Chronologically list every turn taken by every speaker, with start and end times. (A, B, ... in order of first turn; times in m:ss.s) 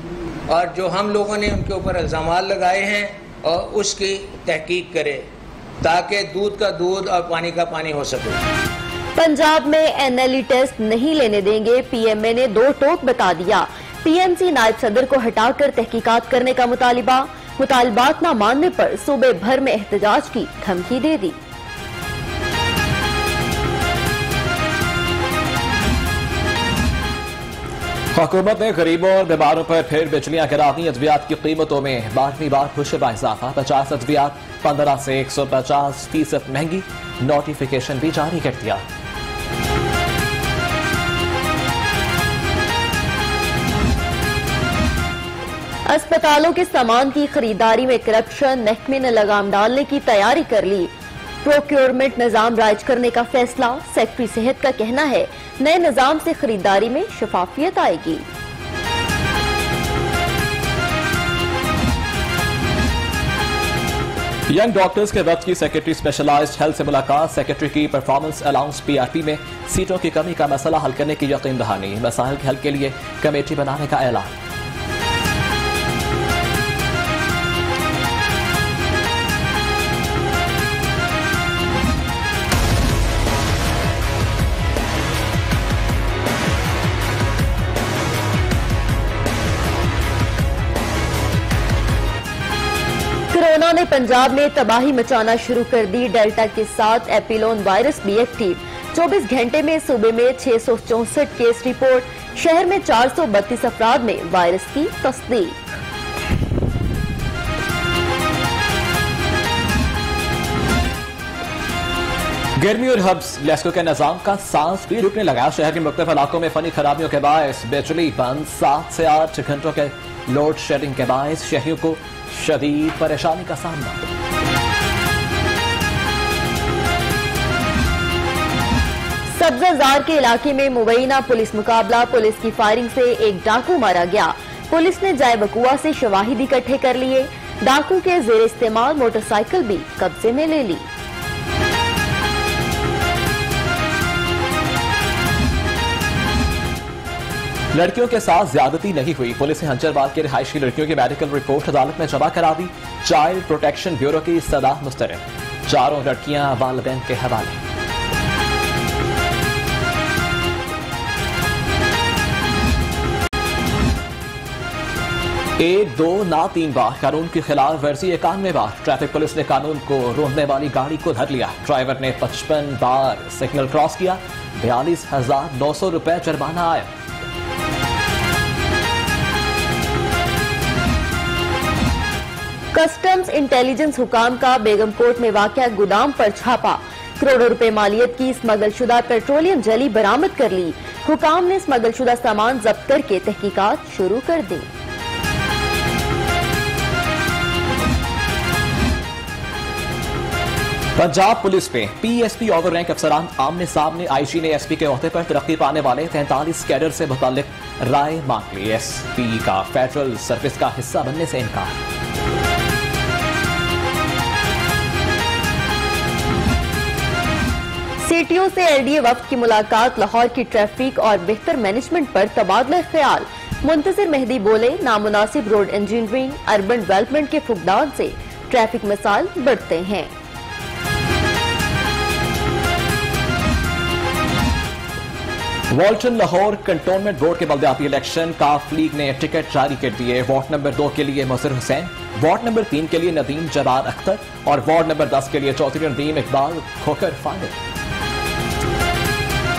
0:00.5-0:05.2 A
0:05.8-0:08.4 A
0:09.2-0:21.4 B
0:28.2-0:38.8 C
0:45.9-0:50.9 B
0:51.4-0:58.2 B
1:04.5-1:14.3 C
1:33.3-1:45.6 B
1:52.6-2:04.0 C
2:09.4-2:20.9 B
2:27.7-2:37.6 C
2:45.6-2:56.9 C
3:02.7-3:14.7 B
3:21.0-3:31.8 C
3:38.0-3:50.1 B
3:55.7-4:07.6 C